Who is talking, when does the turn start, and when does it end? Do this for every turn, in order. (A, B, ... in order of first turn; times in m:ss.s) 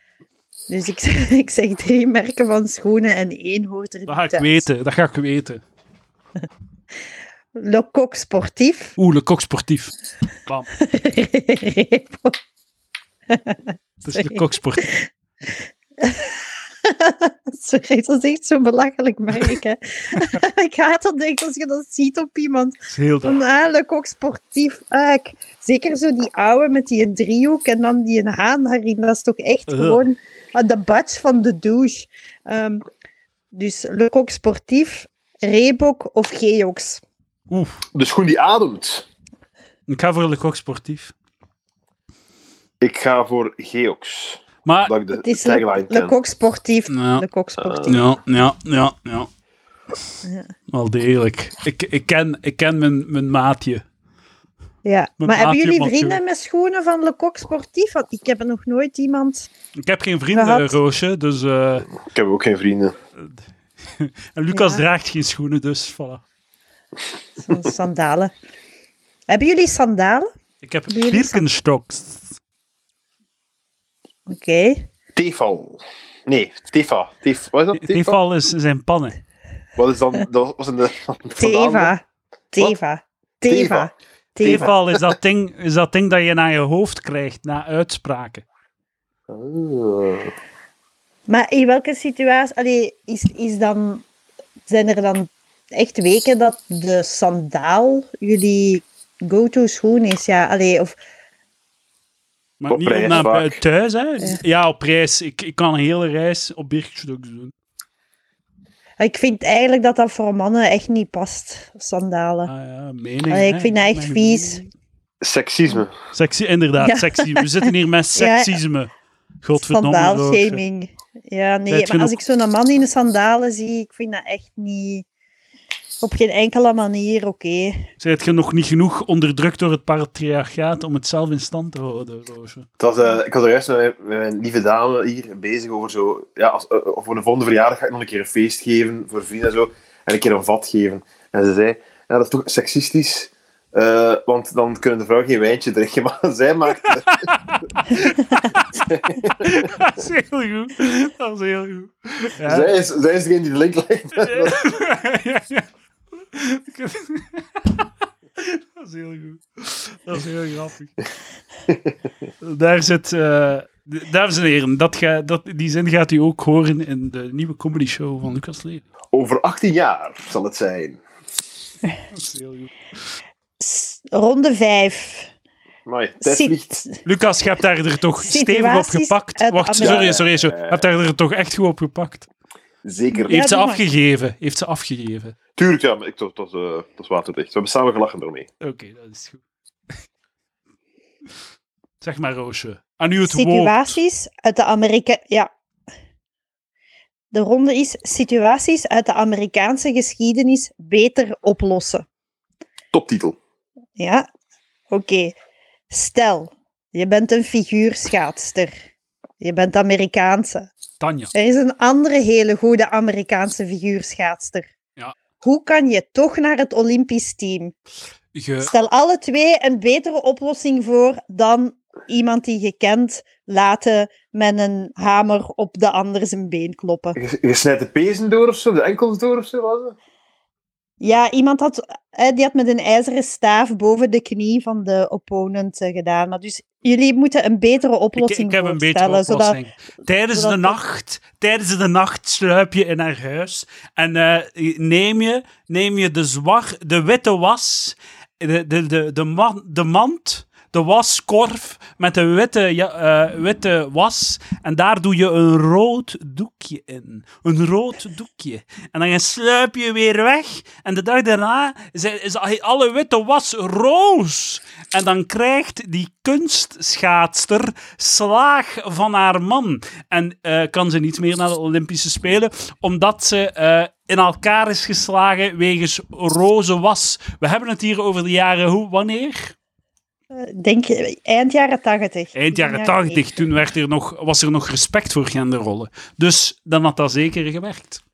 0:00.7-0:04.6 A
0:04.1-0:05.6 B
0:07.5-0:09.0 A
0:09.0-0:09.9 B
0:10.8-0:12.4 A
0:13.3-0:32.8 A
0:14.0-0:14.9 B
0:22.9-0:23.4 B
0:29.7-0:30.0 B
0:33.5-0:37.0 A
0:37.5-0:37.8 B
0:37.9-0:39.0 C
0:39.9-0:41.1 B
0:42.8-0:46.1 C
0:44.6-0:44.9 B
0:45.2-0:47.9 A
0:46.9-0:47.2 B
0:47.6-0:48.0 C
0:47.8-0:49.3 B
0:50.2-0:50.5 A
0:50.7-0:53.8 B
0:54.8-0:59.5 A
0:55.2-0:56.2 B
0:59.8-1:01.9 B
1:00.3-1:00.8 A
1:02.0-1:02.9 C
1:03.9-1:06.2 B
1:04.5-1:04.8 A
1:07.4-1:08.3 A
1:09.3-1:10.3 A
1:10.6-1:12.4 B
1:10.9-1:11.4 A
1:14.3-1:14.9 A
1:15.2-1:18.2 C
1:17.8-1:19.2 B
1:19.8-1:21.9 C
1:21.4-1:24.7 A
1:23.5-1:23.9 C
1:24.4-1:28.4 B
1:24.4-1:25.1 C
1:29.3-1:30.3 C
1:31.3-1:34.0 A
1:34.7-1:41.0 A
1:42.6-1:47.5 B
1:42.7-1:43.6 C
1:49.0-1:52.5 A
1:52.5-1:54.7 B
1:53.3-1:54.6 A
1:55.2-1:55.9 C
1:56.1-1:58.9 B
1:56.8-1:58.6 A
1:59.4-2:00.6 B
1:59.6-2:05.0 A
2:01.7-2:02.1 B
2:06.0-2:07.9 A
2:08.0-2:12.7 B
2:12.8-2:27.1 C
2:26.9-2:28.6 B
2:28.7-2:29.7 C
2:29.4-2:32.7 B
2:32.4-2:34.6 C
2:34.2-2:35.7 B
2:36.3-2:40.9 B
2:41.7-2:41.9 C
2:42.4-2:48.8 B
2:49.1-2:51.0 C
2:52.1-2:52.7 B
2:53.6-2:55.3 A
2:55.8-2:56.7 C
2:56.2-2:57.0 A
2:57.0-3:02.3 B
2:58.2-3:00.0 A
2:59.8-3:00.8 C
3:02.8-3:03.4 C
3:03.2-3:03.8 A
3:03.3-3:05.4 B
3:05.6-3:08.5 C
3:08.6-3:09.4 B
3:12.0-3:14.0 B
3:13.2-3:15.5 A
3:17.3-3:22.0 A
3:22.9-3:23.4 C
3:24.0-3:24.3 A
3:24.9-3:25.4 A
3:25.9-3:28.7 A
3:29.4-3:30.7 A
3:31.0-3:31.3 B
3:31.3-3:34.7 A
3:35.4-3:37.7 A
3:38.3-3:38.7 B
3:38.6-3:47.2 A
3:47.2-3:50.0 C
3:51.0-3:59.6 A
3:58.2-4:39.5 B
4:00.3-4:00.8 A
4:40.3-4:43.4 A
4:42.3-4:48.0 B